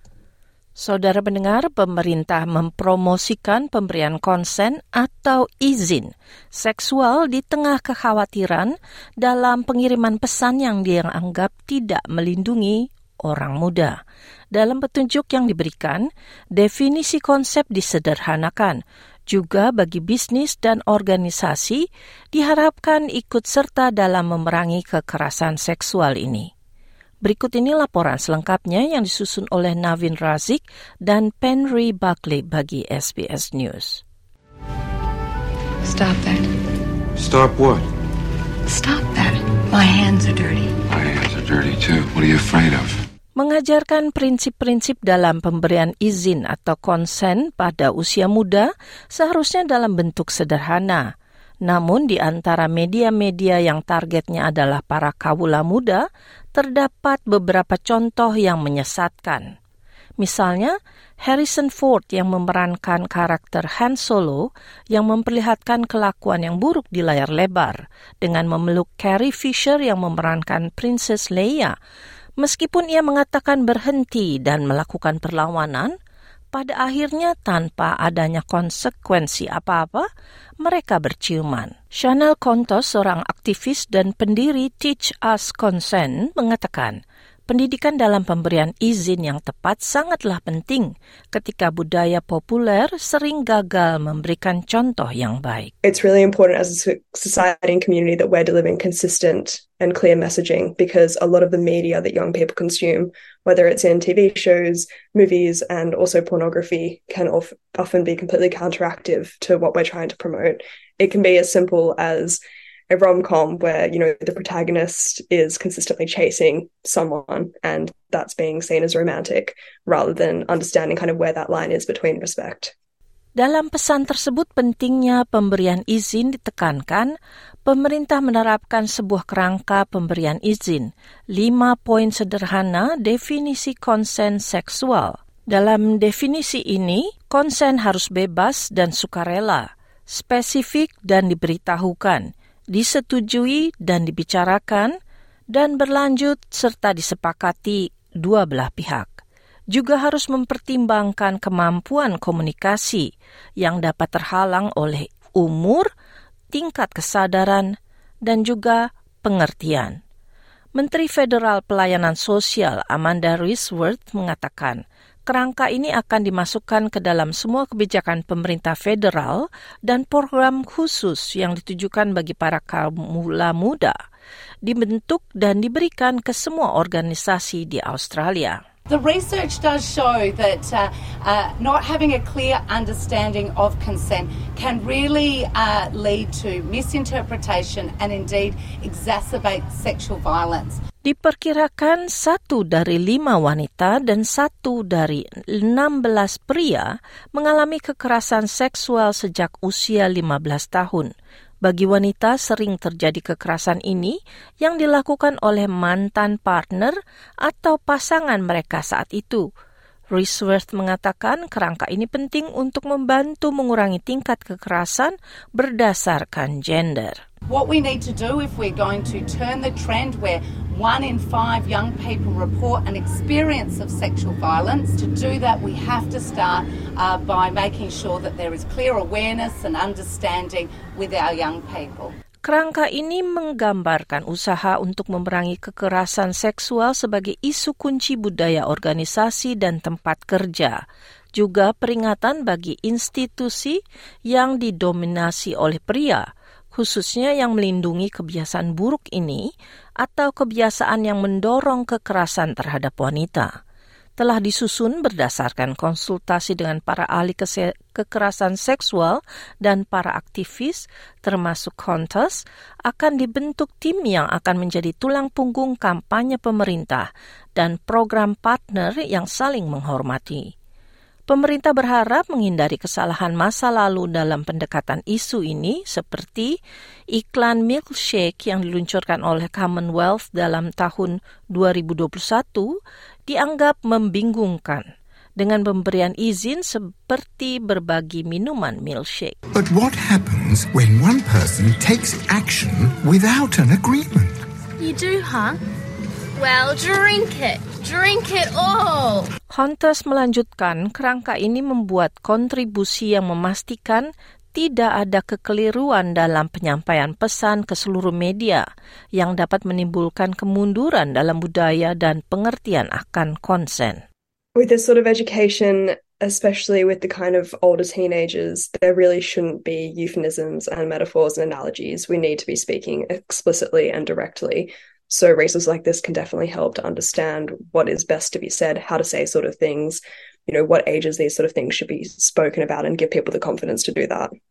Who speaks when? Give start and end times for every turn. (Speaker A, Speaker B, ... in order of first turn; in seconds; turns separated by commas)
Speaker A: 0.8-14.0, Speaker A: 14.5-26.5, Speaker A: 27.2-34.0, Speaker B: 35.8-36.5, Speaker C: 37.1-37.9, Speaker B: 38.7-40.7, Speaker C: 40.9-43.0, Speaker A: 43.4-51.1, Speaker A: 51.6-59.5, Speaker A: 60.2-71.7, Speaker A: 72.4-75.9, Speaker A: 76.5-80.1, Speaker A: 80.6-95.7, Speaker D: 95.8-122.7, Speaker A: 123.3-127.1, Speaker A: 127.7-144.9, Speaker A: 145.5-149.2, Speaker A: 149.7-155.9, Speaker A: 156.5-160.0, Speaker A: 160.8-174.0, Speaker A: 174.6-178.6, Speaker E: 178.9-190.8, Speaker A: 191.0-201.1, Speaker A: 201.6-209.5, Speaker A: 210.1-217.2, Speaker E: 217.5-232.1, Speaker A: 232.4-240.8, Speaker A: 241.3-253.5, Speaker A: 254.2-270.5, Speaker A: 271.3-276.6, Speaker A: 277.1-289.4, Speaker F: 289.5-294.3, Speaker G: 294.8-295.6, Speaker G: 296.4-299.3, Speaker A: 299.5-314.0, Speaker D: 314.5-334.3